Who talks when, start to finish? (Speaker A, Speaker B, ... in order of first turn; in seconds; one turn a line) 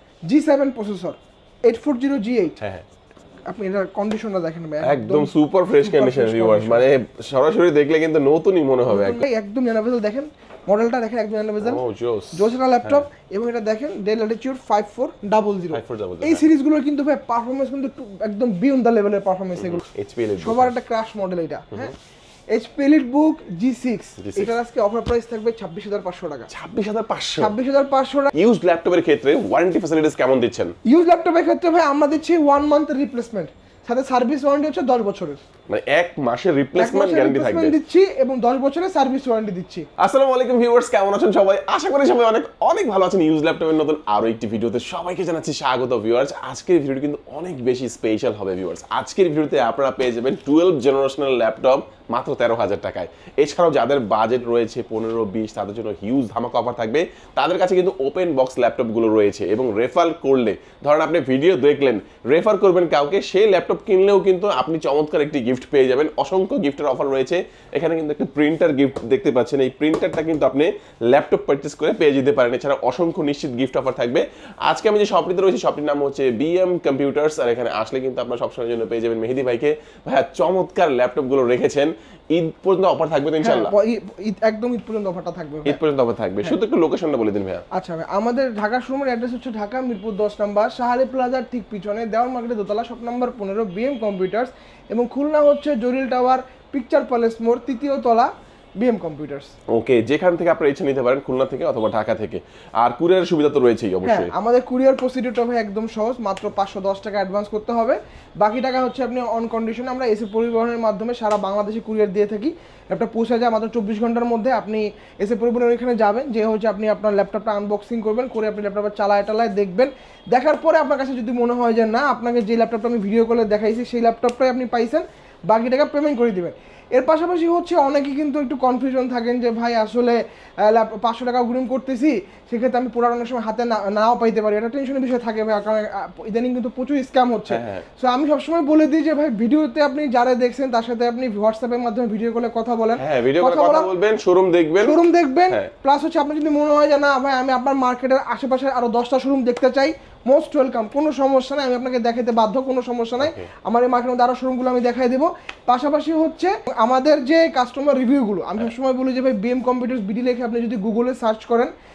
Speaker A: 0.2-2.6
Speaker B: 2.6-2.8
Speaker A: 3.5-6.9
Speaker B: 4.8-9.2
Speaker A: 8.9-11.8
Speaker B: 11.6-13.0
Speaker A: 12.3-19.8
Speaker B: 15.7-16.5
Speaker B: 19.6-20.7
Speaker A: 20.4-21.9
Speaker A: 22.5-26.5
Speaker B: 24.2-24.5
Speaker B: 26.5-27.5
Speaker A: 27.4-28.3
Speaker B: 28.3-30.7
Speaker A: 30.8-35.4
Speaker B: 35.7-37.8
Speaker A: 36.8-39.9
Speaker B: 40.0-83.7
Speaker A: 83.4-85.8
Speaker B: 85.7-87.6
Speaker A: 87.7-99.5
Speaker B: 99.7-104.3
Speaker A: 104.0-143.9
Speaker B: 137.5-137.8
Speaker B: 143.0-145.0
Speaker A: 144.8-161.7
Speaker B: 153.2-153.5